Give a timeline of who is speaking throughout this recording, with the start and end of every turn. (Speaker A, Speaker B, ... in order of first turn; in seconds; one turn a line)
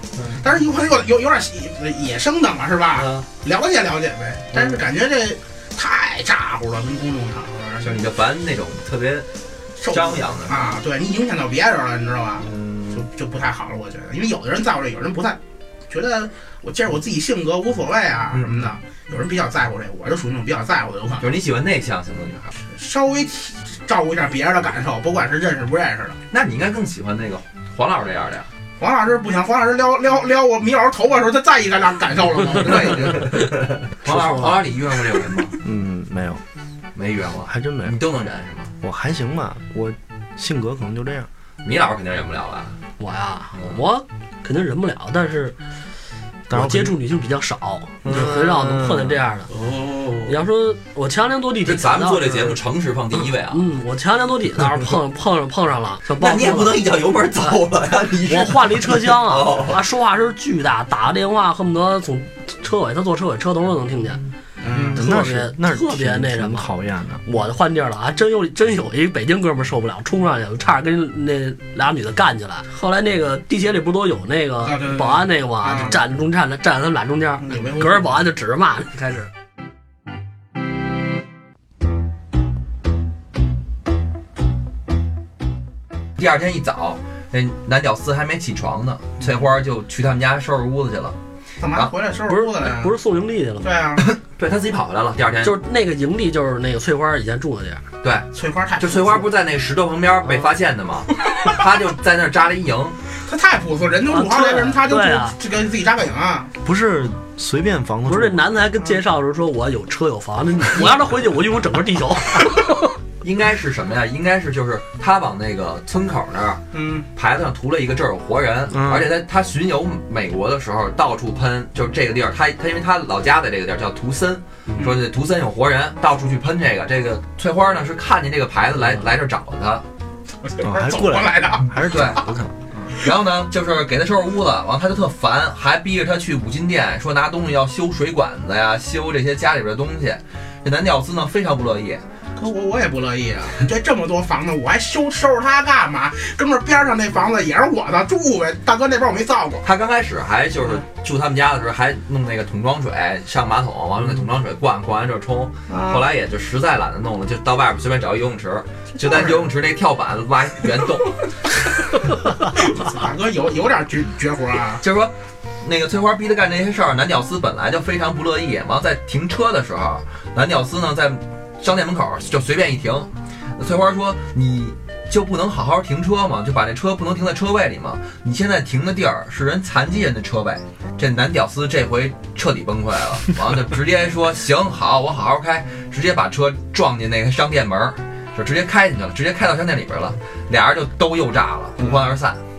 Speaker A: 0.4-8.0
Speaker B: 2.9-3.2
Speaker B: 4.5-4.8
Speaker B: 7.8-9.3
Speaker A: 9.8-21.3
Speaker B: 9.9-10.8
Speaker B: 12.4-13.0
Speaker B: 18.3-18.7
Speaker B: 21.2-22.5
Speaker A: 22.6-26.2
Speaker B: 26.3-28.5
Speaker A: 28.8-33.5
Speaker B: 32.6-35.6
Speaker C: 34.0-34.6
Speaker D: 35.6-36.4
Speaker B: 36.9-38.7
Speaker D: 37.5-38.0
Speaker D: 38.8-41.3
Speaker B: 41.6-42.8
Speaker C: 43.0-45.5
Speaker D: 46.5-47.0
Speaker C: 46.5-49.5
Speaker D: 48.0-49.2
Speaker A: 49.5-50.3
Speaker C: 50.2-52.5
Speaker B: 51.6-53.6
Speaker C: 53.5-56.8
Speaker B: 56.2-59.8
Speaker C: 58.3-64.2
Speaker A: 64.6-65.0
Speaker D: 64.7-67.2
Speaker C: 64.9-66.7
Speaker C: 67.2-79.3
Speaker A: 74.6-76.0
Speaker A: 77.4-78.1
Speaker B: 86.2-91.2
Speaker A: 91.6-92.9
Speaker C: 92.3-93.7
Speaker A: 93.6-94.1
Speaker B: 94.0-95.5
Speaker C: 95.4-97.8
Speaker B: 98.0-103.0
Speaker A: 98.3-99.3
Speaker A: 103.2-106.5
Speaker C: 104.1-105.3
Speaker D: 106.6-108.4
Speaker C: 108.1-112.9
Speaker B: 113.2-116.6
Speaker A: 116.7-117.1
Speaker B: 117.1-129.8
Speaker D: 118.7-119.1
Speaker A: 130.4-132.0
Speaker D: 130.6-132.9
Speaker B: 131.8-132.2
Speaker B: 132.9-142.0
Speaker A: 142.3-149.6
Speaker B: 149.6-161.3
Speaker A: 155.7-156.0
Speaker A: 159.0-159.5
Speaker A: 162.5-164.8
Speaker B: 164.8-192.4
Speaker A: 191.8-192.1